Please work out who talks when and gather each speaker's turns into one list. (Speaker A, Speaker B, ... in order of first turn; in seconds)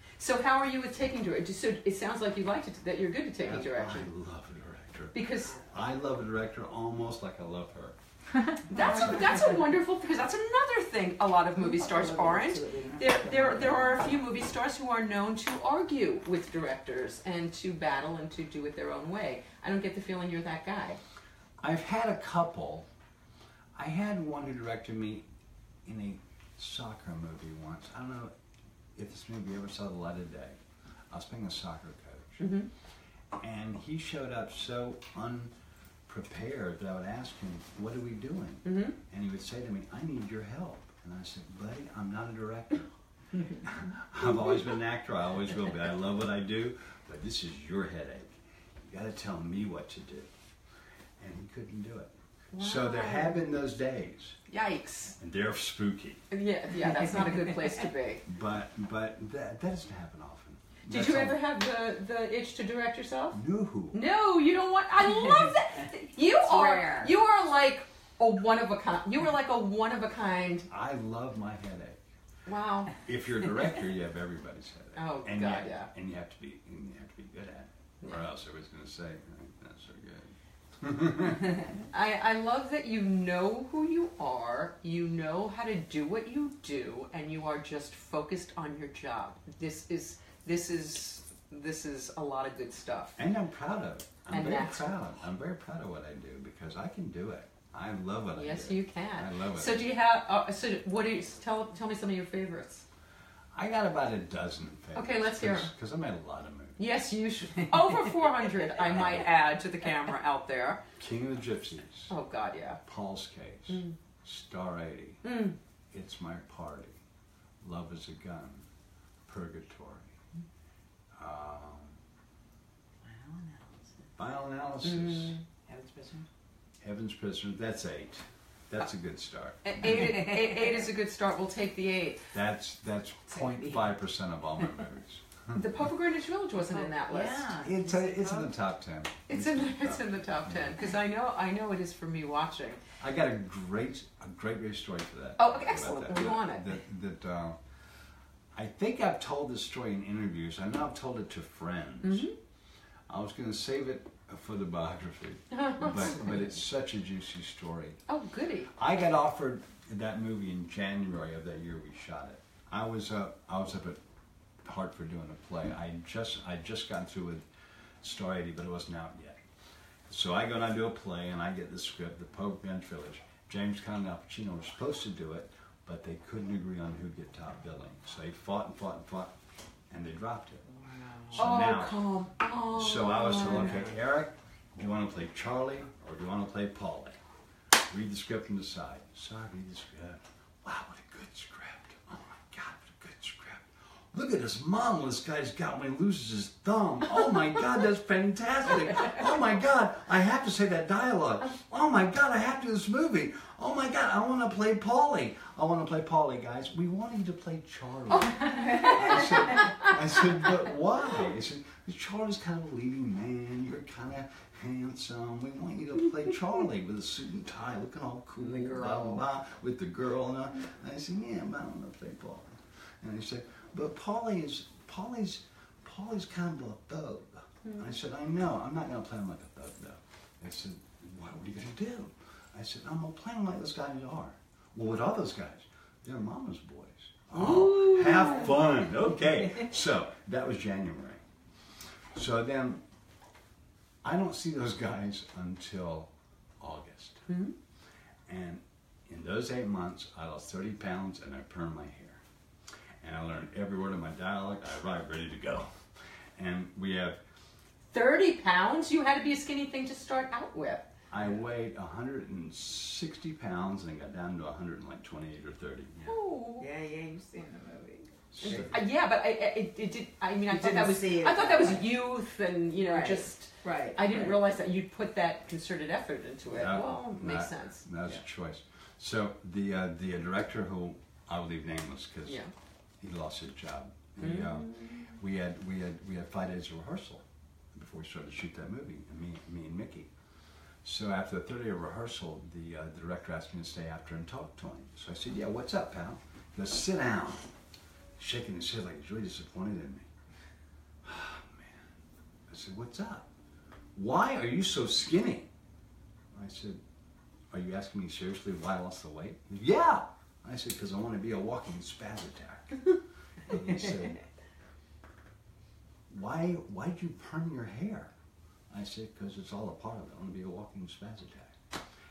Speaker A: 0.2-4.1, 5.1-5.6, 8.7-21.0, 32.4-32.7, 38.6-39.0, 52.5-53.6, 54.5-55.1, 56.3-58.2, 60.9-63.4, 63.9-70.7, 72.5-72.9, 75.0-75.9, 81.9-93.2, 94.3-94.9, 98.3-102.8, 104.9-105.7, 106.8-110.8, 112.1-112.8, 113.7-113.9, 115.2-115.6, 124.8-125.4, 129.6-132.3, 135.5-137.5, 139.3-142.8, 145.4-146.7, 152.0-152.3, 155.5-156.3, 158.1-158.7, 181.4-183.9, 208.1-209.9, 237.3-238.5, 247.3-247.5, 257.9-260.8, 266.1-266.7, 268.4-277.8, 282.2-282.5, 284.2-285.1
Speaker B: 3.4-8.0, 8.7-9.4, 21.6-22.9, 23.7-25.2, 25.8-28.3, 28.9-30.6, 31.1-32.5, 33.4-35.5, 36.1-42.9, 43.6-48.3, 48.9-50.3, 51.2-54.4, 55.2-56.3, 58.2-61.4, 63.3-64.0, 70.7-72.0, 73.0-81.7, 93.2-99.8, 103.5-106.8, 108.8-109.3, 111.0-112.1, 112.8-115.2, 115.9-117.0, 117.6-118.7, 119.3-120.1, 121.2-122.0, 124.2-125.4, 126.8-130.1, 132.3-135.9, 137.6-140.8, 143.0-147.6, 148.5-152.3, 153.1-158.0, 158.8-164.0, 164.6-167.4, 168.0-169.4, 170.1-179.3, 179.9-180.7, 181.3-182.0, 182.7-187.2, 187.7-241.2, 242.1-242.8, 244.0-247.2, 248.3-252.2, 253.0-255.8, 256.4-257.2, 261.1-266.2, 268.3-268.8, 276.5-282.4, 283.0-290.1, 290.8-297.5, 298.2-300.1, 301.0-301.9, 302.5-303.3, 303.9-305.5, 306.3-306.8, 307.5-312.9, 313.4-314.2, 316.1-318.1, 318.7-321.5
Speaker C: 11.6-14.2, 65.0-65.8, 66.4-67.1, 123.0-124.1, 125.6-126.3, 130.0-130.7, 133.3-133.9, 136.6-138.5, 180.7-181.4, 208.5-208.9, 218.4-219.1, 266.6-268.1, 270.5-271.9, 272.8-274.4